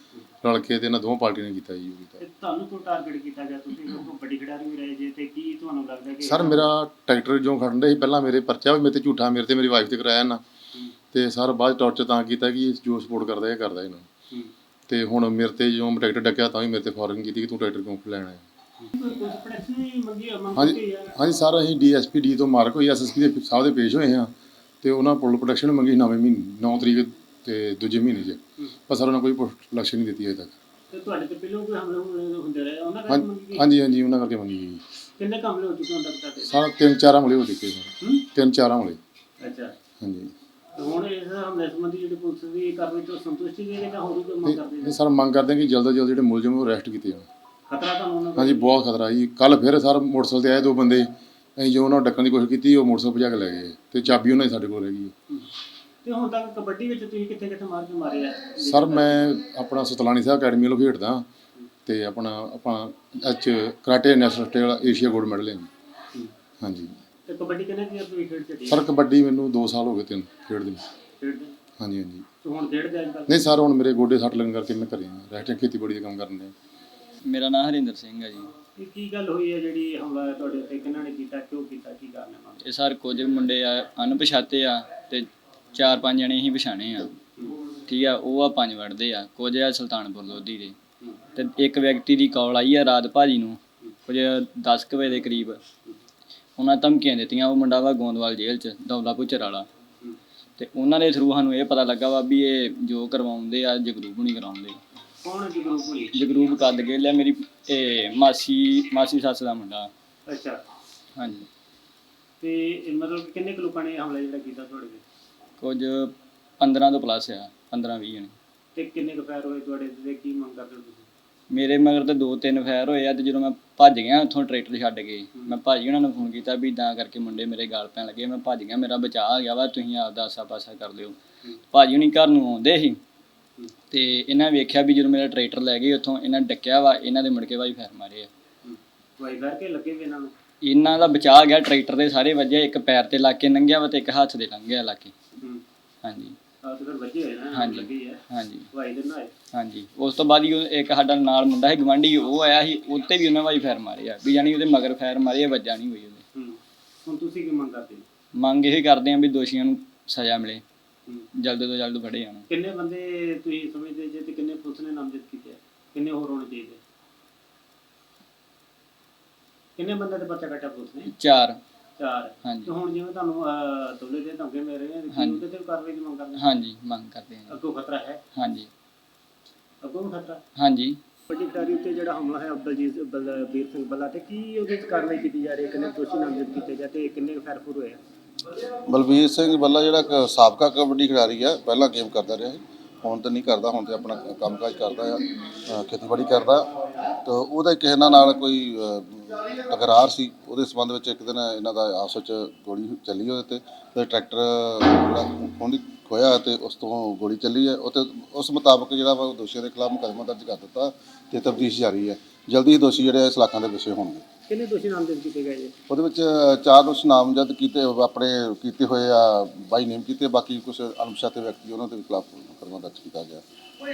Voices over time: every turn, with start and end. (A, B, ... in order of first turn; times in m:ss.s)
0:00.4-0:02.2 A
0:02.2-0:06.7 B
0:06.2-0:10.4 A
0:11.1-0:14.1 A
0:14.9-0:18.4 A
0:18.8-0:21.1 B
0:20.6-0:30.5 A
0:30.9-0:33.7 B
0:33.1-0:34.8 A
0:35.2-0:36.5 B
0:36.4-0:39.0 A
0:39.4-0:39.7 B
0:40.0-0:40.3 A
0:40.7-0:45.0 B
0:44.4-0:47.3 A
0:47.7-0:48.7 B
0:48.4-0:55.1 A
0:56.0-0:59.2 B
0:58.6-1:01.2 A
1:01.8-1:05.7 A
1:06.6-1:06.9 A
1:07.2-1:08.8 B
1:08.7-1:10.9 A
1:11.2-1:11.5 B
1:11.8-1:12.2 A
1:12.4-1:13.4 B
1:13.3-1:16.5 A
1:17.2-1:18.5 C
1:18.7-1:22.6 B
1:22.6-1:27.1 C
1:27.9-1:30.8 C
1:31.3-1:35.6 C
1:36.6-1:39.7 C
1:40.6-1:44.8 C
1:45.2-1:46.2 B
1:46.1-1:49.9 C
1:50.3-1:50.6 B
1:51.2-1:51.5 C
1:52.4-1:55.0 B
1:55.6-1:58.3 C
1:58.7-2:01.1 B
2:01.5-2:11.2 C
2:11.7-2:13.0 C
2:13.9-2:18.3 C
2:18.6-2:20.3 B
2:20.6-2:25.1 C
2:26.0-2:26.4 C
2:26.6-2:28.2 B
2:27.5-2:28.7 C
2:28.7-2:29.3 B
2:29.5-2:36.2 C
2:36.3-2:38.0 B
2:38.3-2:40.6 C
2:41.4-2:42.4 C
2:42.5-2:46.8 B
2:49.8-2:51.1 B
2:51.1-2:51.6 C
2:52.0-2:56.5 B
2:52.4-2:52.7 C
2:55.1-2:55.4 C
2:56.4-2:57.6 C
2:57.5-2:58.2 B
2:58.4-2:58.7 C
2:59.8-3:00.4 B
3:00.6-3:01.0 C
3:01.3-3:08.0 B
3:08.9-3:16.7 D
3:17.2-3:34.2 D
3:34.5-3:35.7 B
3:35.9-3:43.4 D